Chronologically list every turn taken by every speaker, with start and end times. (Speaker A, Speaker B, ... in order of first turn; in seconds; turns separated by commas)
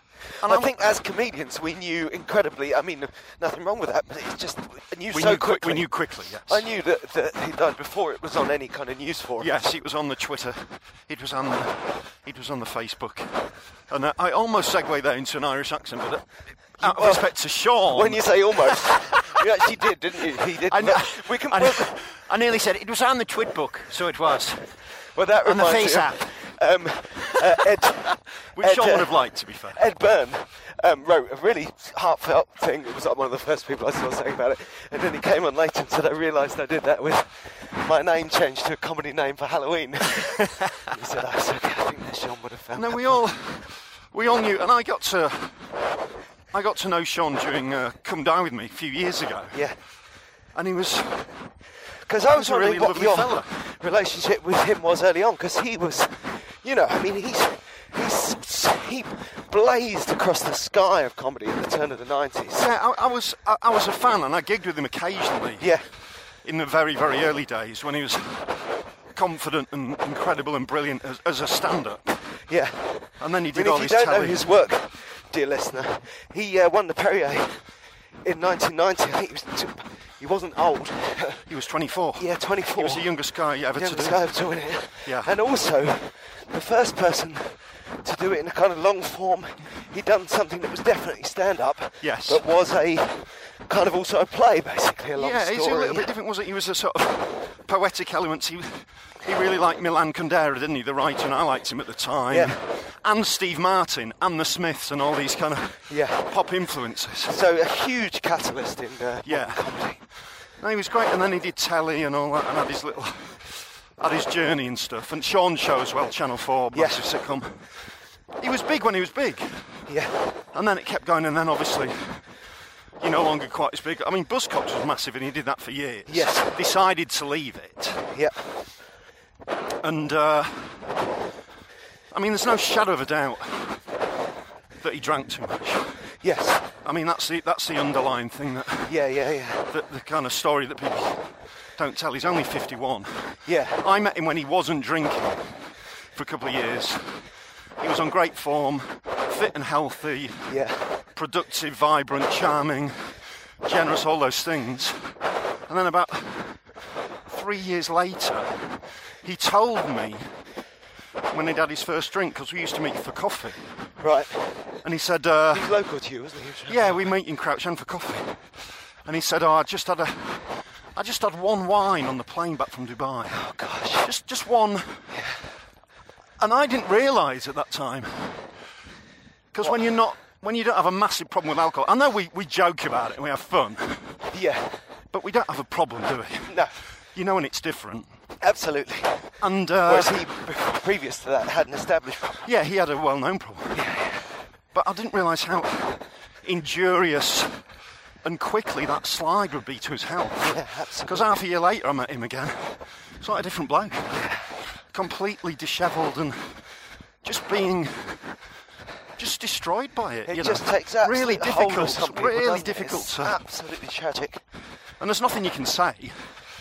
Speaker A: 0.4-9.6, Speaker B: 0.4-0.9, Speaker B: 5.1-6.7, Speaker B: 9.4-19.4, Speaker A: 16.8-17.3, Speaker A: 17.9-21.9, Speaker B: 20.3-24.7, Speaker A: 25.2-29.2, Speaker B: 25.4-26.3, Speaker B: 28.5-29.8, Speaker A: 29.7-43.2, Speaker B: 42.8-45.6, Speaker B: 46.5-49.6, Speaker B: 50.5-51.3, Speaker A: 52.1-62.7, Speaker B: 52.2-53.5, Speaker B: 62.5-65.7, Speaker B: 66.5-68.6, Speaker B: 69.1-72.2, Speaker A: 72.5-77.6, Speaker B: 73.2-74.5, Speaker A: 78.2-81.5, Speaker B: 81.5-84.2, Speaker A: 82.2-83.2, Speaker A: 83.8-96.1, Speaker B: 85.0-85.3, Speaker B: 92.0-92.5, Speaker B: 95.2-107.3, Speaker A: 105.9-106.4, Speaker A: 107.2-110.0, Speaker B: 109.3-109.7, Speaker B: 110.6-117.6, Speaker A: 116.7-117.1, Speaker B: 118.4-119.6, Speaker A: 119.9-120.3, Speaker B: 120.5-122.2, Speaker B: 123.0-128.1, Speaker A: 126.1-126.6, Speaker A: 128.1-128.4, Speaker B: 129.8-130.8, Speaker B: 132.1-133.8, Speaker B: 134.8-135.9, Speaker A: 136.2-136.7, Speaker B: 136.8-138.9, Speaker A: 138.9-139.7, Speaker B: 139.7-141.3, Speaker B: 141.8-145.5, Speaker A: 143.5-143.8, Speaker B: 146.2-147.2, Speaker B: 147.8-150.5, Speaker A: 150.5-151.0, Speaker B: 151.2-153.0, Speaker B: 153.6-155.2, Speaker B: 155.7-156.6, Speaker B: 157.3-160.3, Speaker B: 161.3-163.6, Speaker A: 164.0-164.6, Speaker B: 164.8-165.7, Speaker A: 165.5-167.1, Speaker B: 166.7-168.4, Speaker B: 169.1-173.4, Speaker A: 173.3-174.1, Speaker B: 174.0-175.1, Speaker A: 175.1-175.4, Speaker B: 176.4-178.4, Speaker B: 179.5-184.2, Speaker A: 184.3-184.8, Speaker B: 185.1-186.6, Speaker A: 186.5-186.7, Speaker B: 187.2-188.1, Speaker A: 188.4-189.3, Speaker B: 189.4-190.2, Speaker A: 189.8-192.5, Speaker B: 192.4-193.8, Speaker A: 193.7-194.2, Speaker B: 194.7-197.6, Speaker B: 198.2-204.2, Speaker A: 200.4-201.4, Speaker A: 204.1-204.5, Speaker B: 204.9-206.6, Speaker B: 207.2-208.2, Speaker B: 209.2-213.4, Speaker A: 210.3-214.4, Speaker B: 215.0-216.3